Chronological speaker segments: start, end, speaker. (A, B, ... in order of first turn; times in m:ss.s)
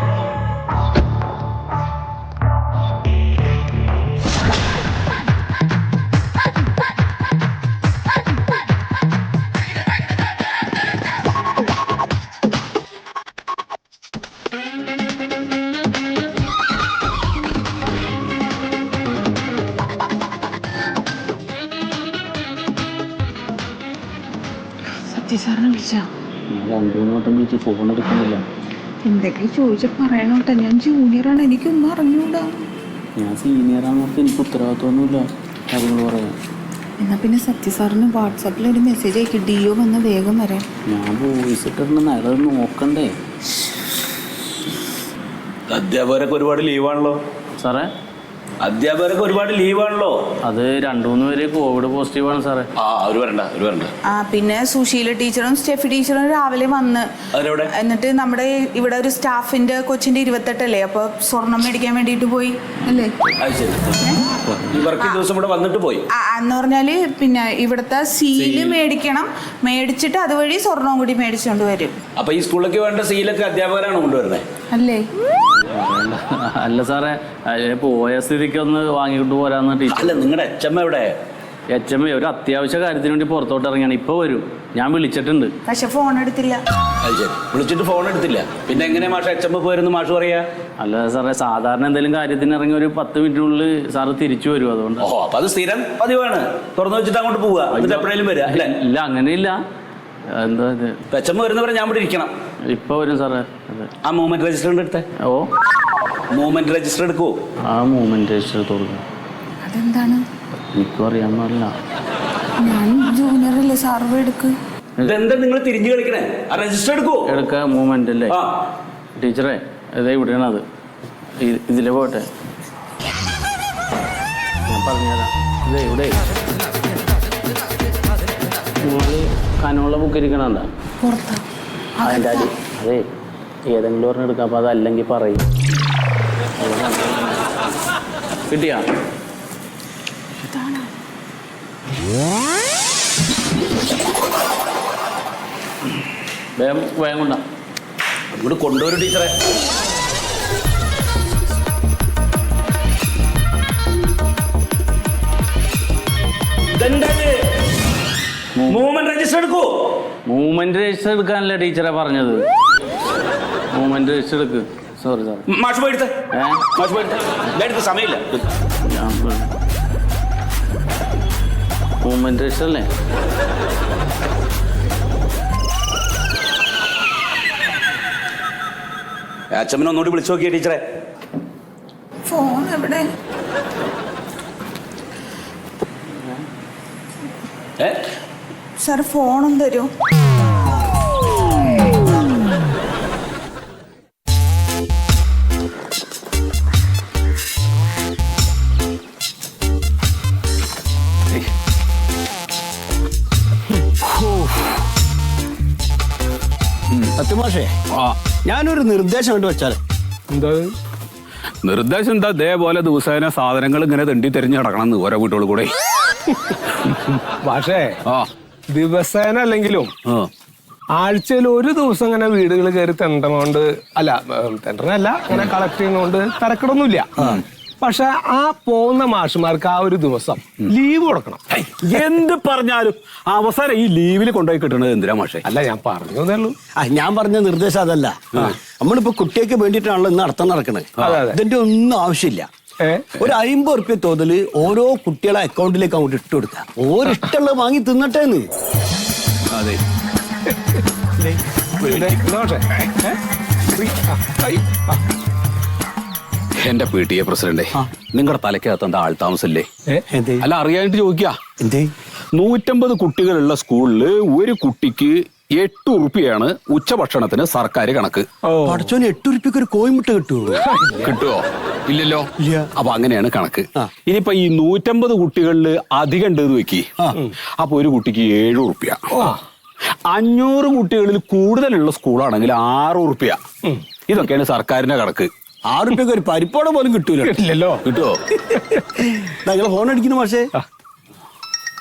0:25.1-0:26.1 A
0:26.5-0:28.4 B
0:29.0-0:32.6 A
0:33.2-0:36.4 B
0:37.0-0:40.6 A
0:40.9-0:43.1 B
0:45.7-0:47.2 C
0:47.6-0:47.9 B
0:48.6-0:50.2 C
0:50.4-0:52.7 B
0:52.8-0:53.9 C
0:54.1-0:57.1 A
0:57.3-0:57.7 C
0:57.7-1:03.1 A
1:03.4-1:04.0 C
1:03.9-1:04.2 A
1:04.7-1:06.0 C
1:05.0-1:05.2 A
1:06.1-1:12.0 A
1:08.4-1:08.8 C
1:12.2-1:14.4 C
1:14.7-1:15.0 A
1:15.6-1:20.2 B
1:19.9-1:21.1 C
1:21.7-1:25.5 B
1:25.7-1:26.6 A
1:27.0-1:30.5 C
1:30.8-1:35.1 B
1:35.0-1:38.8 C
1:37.7-1:39.6 B
1:40.3-1:41.0 B
1:41.1-1:42.3 C
1:42.7-1:43.9 B
1:44.0-1:45.0 C
1:45.2-1:45.5 B
1:46.3-1:47.4 C
1:47.7-1:49.0 B
1:49.6-1:50.2 A
1:50.7-1:51.8 B
1:52.6-1:54.6 A
1:55.0-1:55.2 B
1:55.0-1:57.3 C
1:57.2-1:58.4 B
1:59.2-2:00.6 B
2:01.4-2:02.3 B
2:04.7-2:06.2 B
2:08.8-2:10.7 B
2:11.0-2:11.4 A
2:12.0-2:12.4 A
2:12.0-2:13.0 B
2:13.6-2:15.5 B
2:16.6-2:17.4 B
2:18.5-2:18.9 B
2:20.4-2:20.9 A
2:26.6-2:27.4 B
2:28.3-2:29.3 C
2:36.7-2:37.4 C
2:38.6-2:38.9 B
2:38.7-2:39.7 C
2:40.2-2:42.4 B
2:43.7-2:45.4 B
2:45.5-2:46.1 C
2:46.3-2:46.6 B
2:46.8-2:48.4 C
2:48.8-2:49.5 B
2:52.0-2:52.9 B
2:59.5-3:00.8 C
3:02.2-3:03.1 A
3:08.8-3:09.9 A
3:24.0-3:24.7 D
3:27.2-3:27.7 D
3:28.4-3:29.8 D
3:30.3-3:30.7 E
3:31.6-3:35.7 C
3:36.8-3:37.1 C
3:37.4-3:38.0 E
3:38.7-3:39.9 E
3:41.0-3:47.2 E
3:47.8-3:51.4 E
3:51.7-3:55.4 C
3:55.4-3:56.6 E
3:56.8-4:02.5 D
4:01.0-4:01.4 E
4:02.8-4:03.1 E
4:03.1-4:08.5 D
4:09.5-4:09.8 C
4:11.9-4:12.7 E
4:13.8-4:14.9 E
4:16.6-4:19.7 C
4:20.1-4:20.5 D
4:20.4-4:21.4 C
4:21.6-4:21.9 D
4:22.3-4:28.3 C
4:28.5-4:28.9 E
4:28.6-4:30.6 D
4:30.6-4:31.1 E
4:31.0-4:36.9 C
4:32.4-4:32.7 D
4:37.6-4:39.2 C
4:40.1-4:43.4 C
4:44.1-4:45.3 C
4:45.7-4:47.4 D
4:47.2-4:47.8 E
4:47.8-4:48.2 C
4:49.0-4:50.5 D